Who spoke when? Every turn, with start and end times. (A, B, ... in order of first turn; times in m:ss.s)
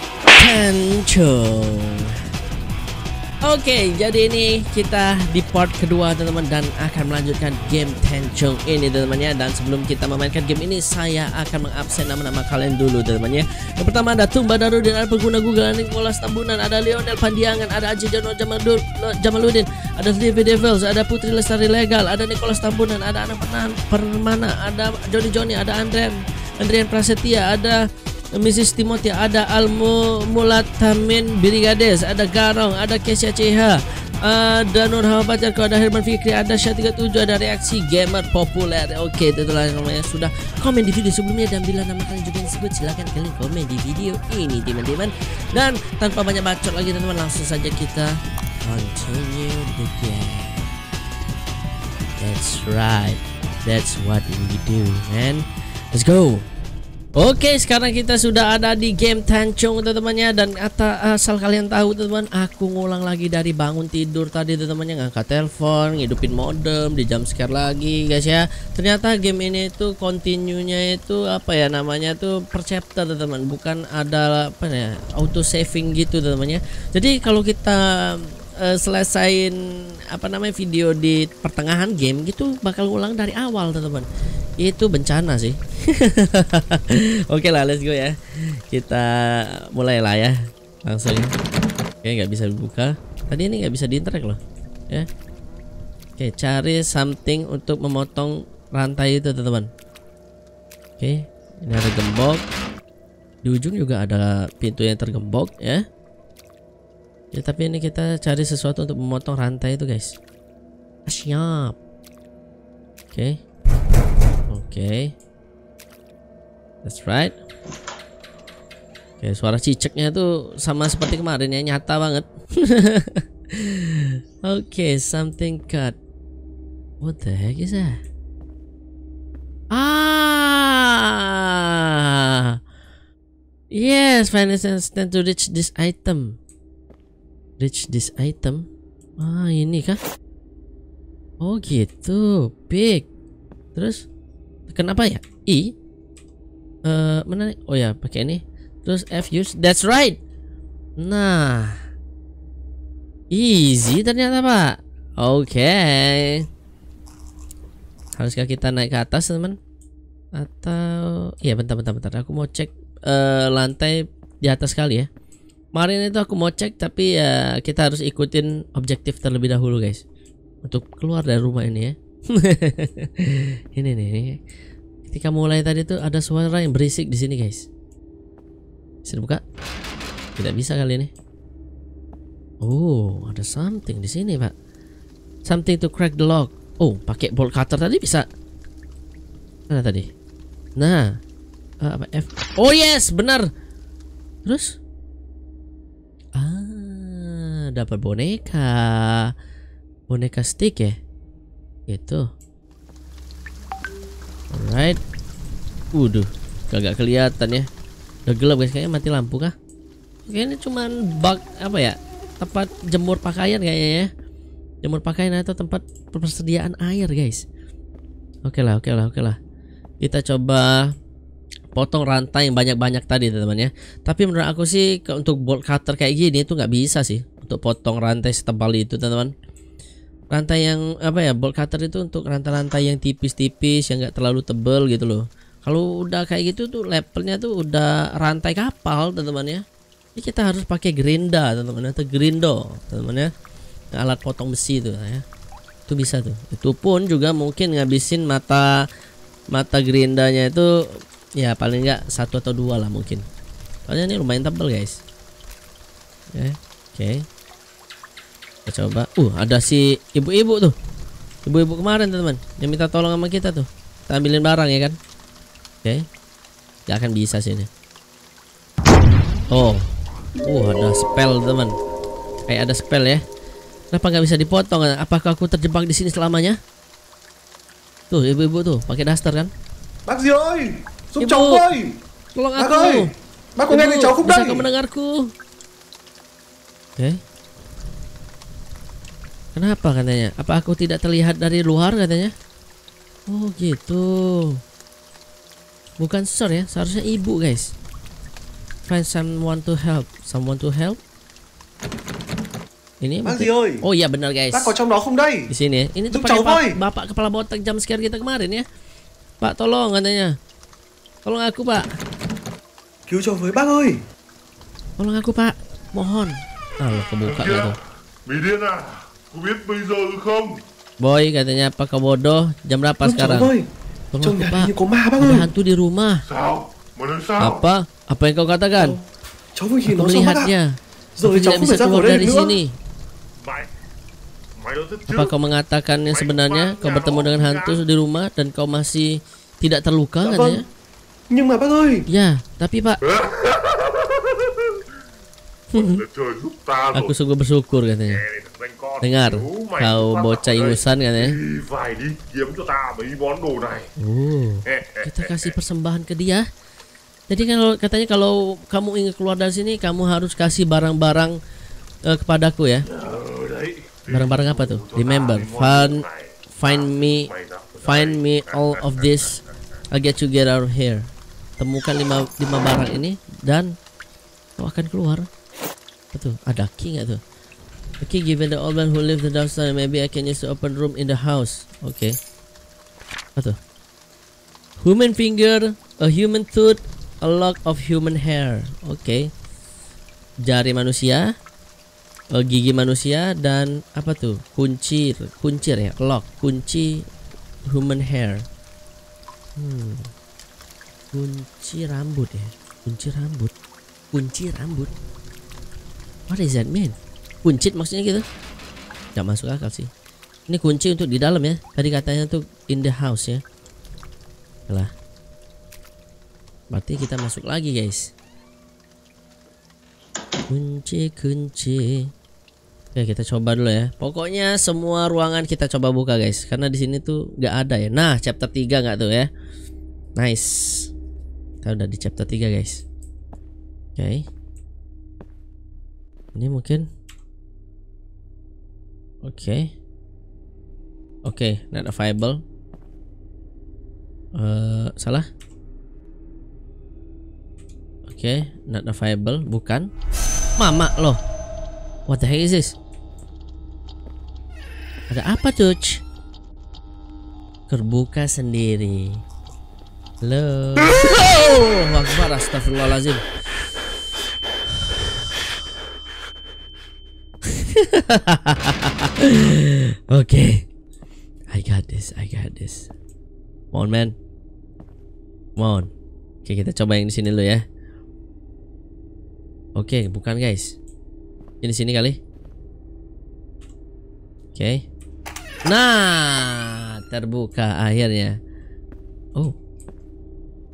0:00.3-0:02.1 A
0:03.4-0:27.8 A
0:28.3-0:50.7 A
0:52.2-0:56.4 A
0:57.2-1:19.6 A
1:20.1-1:24.1 A
1:24.6-1:28.2 A
1:28.7-1:31.3 A
1:32.0-1:34.4 A
1:36.2-1:39.7 A
1:41.0-1:42.4 A
1:43.4-1:45.8 A
1:47.3-1:50.2 A
1:51.1-1:51.8 A
1:53.1-1:53.4 A
1:54.5-1:55.1 A
1:56.8-1:57.4 A
1:59.2-2:06.0 A
2:07.0-2:08.0 A
2:09.7-2:12.6 A
2:13.7-2:16.4 A
2:17.6-2:18.6 A
2:19.2-2:20.0 A
2:21.4-2:23.1 A
2:23.8-2:24.1 A
2:24.7-2:25.7 A
2:26.9-2:30.2 A
2:31.0-2:31.8 A
2:33.3-2:36.4 A
2:38.2-2:39.6 A
2:40.4-2:45.1 A
2:45.7-2:50.0 A
2:50.6-2:54.4 A
2:55.1-2:57.7 A
2:59.0-2:59.4 A
3:00.4-3:01.1 A
3:02.6-3:04.5 A
3:05.5-3:08.3 A
3:09.7-3:10.1 A
3:10.8-3:11.1 A
3:11.8-3:13.5 A
3:14.5-3:14.8 A
3:16.4-3:19.3 A
3:20.1-3:21.0 A
3:21.9-3:22.2 A
3:24.5-3:25.0 A
3:25.9-3:27.7 A
3:28.3-3:29.5 A
3:30.3-3:34.1 A
3:34.8-3:37.4 A
3:38.5-3:39.4 A
3:40.0-3:40.9 A
3:41.7-3:49.3 A
3:50.3-3:59.6 A
4:00.2-4:03.3 A
4:04.0-4:05.2 A
4:05.9-4:08.8 A
4:09.5-4:10.7 A
4:11.4-4:13.2 A
4:13.9-4:15.0 A
4:16.3-4:17.2 A
4:18.7-4:20.8 A
4:21.4-4:25.0 A
4:26.9-4:27.7 A
4:29.5-4:29.9 A
4:30.4-4:31.7 A
4:32.5-4:33.2 A
4:33.9-4:36.6 A
4:38.1-4:39.5 A
4:40.1-4:42.0 B
4:41.2-4:41.7 A
4:42.4-4:43.1 A
4:42.6-4:44.7 B
4:43.7-4:45.3 A
4:49.6-4:52.3 A
4:53.3-4:54.6 A
4:56.0-4:57.7 A
4:58.9-5:01.0 A
5:03.0-5:04.8 A
5:03.2-5:03.8 B
5:04.5-5:05.5 B
5:05.5-5:08.6 A
5:06.1-5:06.8 B
5:09.4-5:10.3 A
5:11.2-5:11.9 A
5:13.1-5:14.0 B
5:15.0-5:17.8 A
5:17.4-5:17.7 C
5:18.3-5:20.6 C
5:21.0-5:23.5 A
5:23.0-5:23.7 B
5:24.1-5:26.2 A
5:24.2-5:25.5 B
5:26.3-5:27.6 C
5:27.4-5:29.0 A
5:29.6-5:30.5 B
5:29.9-5:32.7 A
5:31.2-5:32.6 B
5:33.4-5:33.7 C
5:34.6-5:35.3 C
5:35.1-5:40.6 A
5:36.1-5:37.8 C
5:40.2-5:40.6 B
5:41.3-5:42.1 B
5:42.1-5:43.0 A
5:43.1-5:44.5 C
5:45.7-5:46.0 A
5:45.8-5:47.1 C
5:46.9-5:48.2 A
5:48.1-5:53.9 C
5:49.0-5:51.4 A
5:54.0-5:56.4 A
5:54.7-5:55.5 C
5:57.3-6:01.4 A
6:02.1-6:02.9 A
6:02.9-6:09.4 C
6:04.1-6:07.3 A
6:07.8-6:09.4 A
6:09.9-6:11.1 A
6:11.6-6:13.7 A
6:14.6-6:15.3 A
6:16.1-6:17.2 A
6:18.0-6:22.2 A
6:24.8-6:29.3 A
6:30.4-6:31.3 A
6:32.4-6:37.0 A
6:37.7-6:38.4 A
6:39.6-6:40.1 A
6:41.1-6:43.5 A
6:44.1-6:44.9 A
6:46.3-6:48.2 A
6:49.2-6:49.9 A
6:50.5-6:53.4 A
6:56.7-6:58.1 A
7:00.5-7:02.1 A
7:03.0-7:09.3 A
7:10.2-7:10.9 A
7:11.6-7:12.8 A
7:14.0-7:14.2 A
7:16.4-7:16.8 A
7:19.2-7:19.7 A
7:21.2-7:22.4 A
7:24.4-7:25.3 A
7:28.1-7:29.9 A
7:30.6-7:31.2 A
7:32.1-7:32.8 A
7:35.1-7:36.0 A
7:37.7-7:39.2 A
7:40.2-7:43.2 A
7:44.8-7:45.3 A
7:47.6-7:50.6 A
7:51.5-7:52.9 A
7:53.7-7:54.2 A
7:55.6-7:55.9 A
7:56.4-7:57.6 A
7:59.8-8:00.8 A
8:01.6-8:02.2 A
8:04.6-8:04.9 A
8:05.7-8:08.3 A